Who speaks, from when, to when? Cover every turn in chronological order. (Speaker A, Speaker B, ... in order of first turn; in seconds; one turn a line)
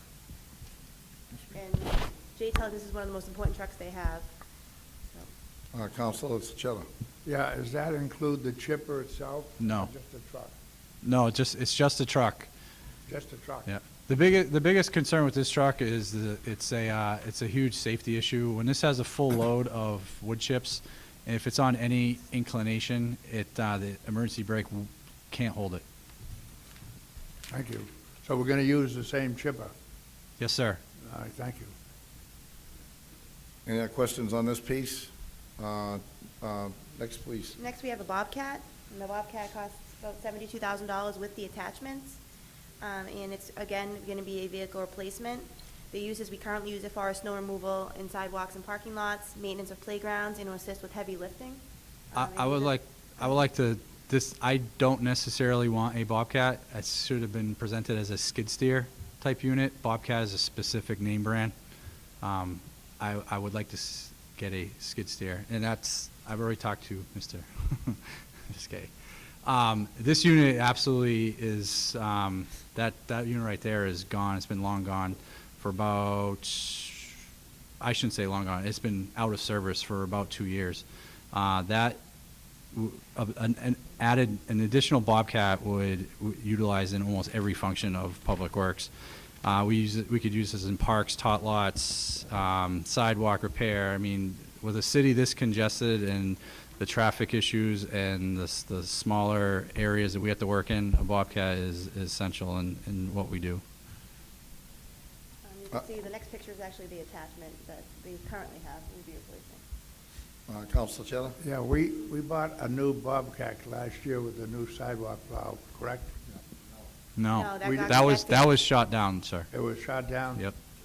Speaker A: 1.5-4.3
Speaker B: 5.7-6.9
Speaker C: 7.2-10.5
Speaker D: 9.6-9.9
Speaker D: 11.0-12.5
Speaker C: 13.1-13.7
Speaker D: 13.7-25.8
Speaker C: 27.5-29.7
Speaker D: 30.4-30.8
Speaker C: 31.0-31.7
Speaker B: 33.7-37.6
Speaker A: 37.6-42.2
Speaker A: 42.8-53.4
Speaker D: 52.1-61.5
Speaker D: 62.2-77.2
Speaker D: 77.8-82.0
Speaker D: 82.7-88.9
Speaker D: 89.4-103.6
Speaker A: 105.4-109.6
Speaker B: 110.5-111.4
Speaker C: 111.4-116.2
Speaker D: 117.2-119.5
Speaker A: 117.3-118.5
Speaker C: 117.6-118.0
Speaker C: 119.5-120.5